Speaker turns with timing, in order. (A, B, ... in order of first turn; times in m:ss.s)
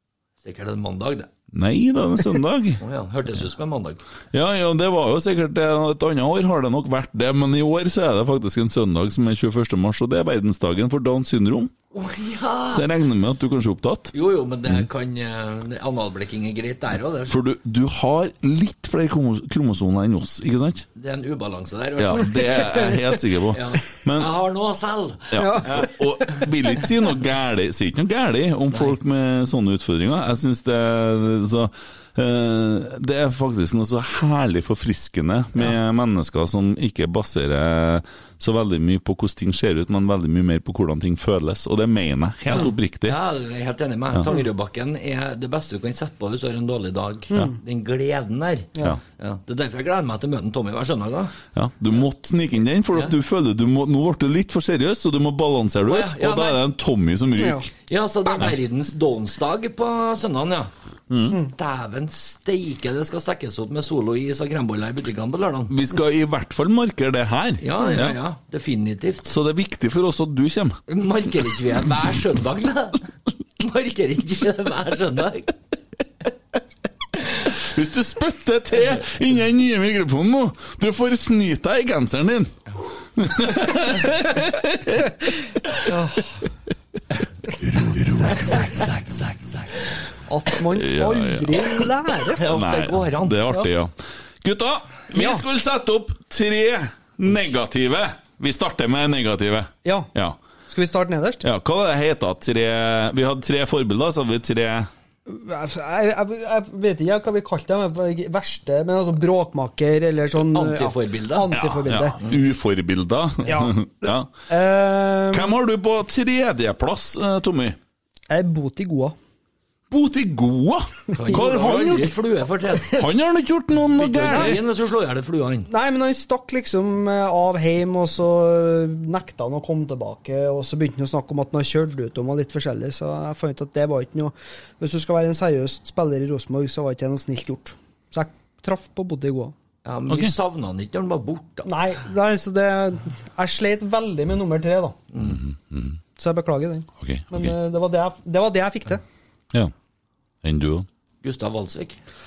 0:00.4-0:01.3 A
0:01.5-0:02.8 B
0:02.8-0:04.0 A
0:04.3-0:11.7 B
0:11.9-0:12.8 A
0:12.7-0:14.1 B
0:14.1-0:17.4 A
0:17.3-0:20.9 B
0:21.0-0:22.4 A
0:22.0-0:24.3 B
0:23.5-0:26.0 A
0:25.3-0:43.2 B
0:25.4-0:25.9 C
0:28.7-0:29.0 A
0:42.5-0:51.3 A
0:47.3-0:47.6 C
0:51.5-0:57.7 B
0:55.9-0:56.6 A
0:57.4-0:57.7 C
0:57.9-1:00.7 A
1:01.1-1:01.4 B
1:01.5-1:05.7 A
1:05.7-1:08.2 B
1:07.6-1:09.2 A
1:09.2-1:10.8 B
1:10.9-1:13.1 A
1:13.6-1:15.5 A
1:17.2-1:17.4 A
1:17.5-1:22.6 B
1:23.2-1:25.2 B
1:25.8-1:26.3 C
1:27.6-1:28.5 B
1:30.3-1:32.4 C
1:30.7-1:31.9 B
1:32.4-1:33.4 A
1:32.4-1:40.4 B
1:35.1-1:35.4 C
1:40.7-1:41.4 C
1:41.4-1:44.9 B
1:45.3-1:52.2 C
1:50.4-1:51.6 A
1:51.5-1:54.3 B
1:53.4-1:55.5 C
1:55.3-1:57.8 B
1:58.3-1:59.2 C
1:59.9-2:02.2 B
2:01.1-2:03.0 A
2:02.9-2:04.6 B
2:03.9-2:05.7 A
2:05.7-2:19.5 C
2:19.8-2:21.7 A
2:20.1-2:20.4 B
2:21.6-2:25.0 C
2:25.1-2:25.4 A
2:25.2-2:26.0 B
2:26.2-2:29.0 C
2:27.0-2:27.6 B
2:30.4-2:30.9 B
2:31.2-2:32.0 A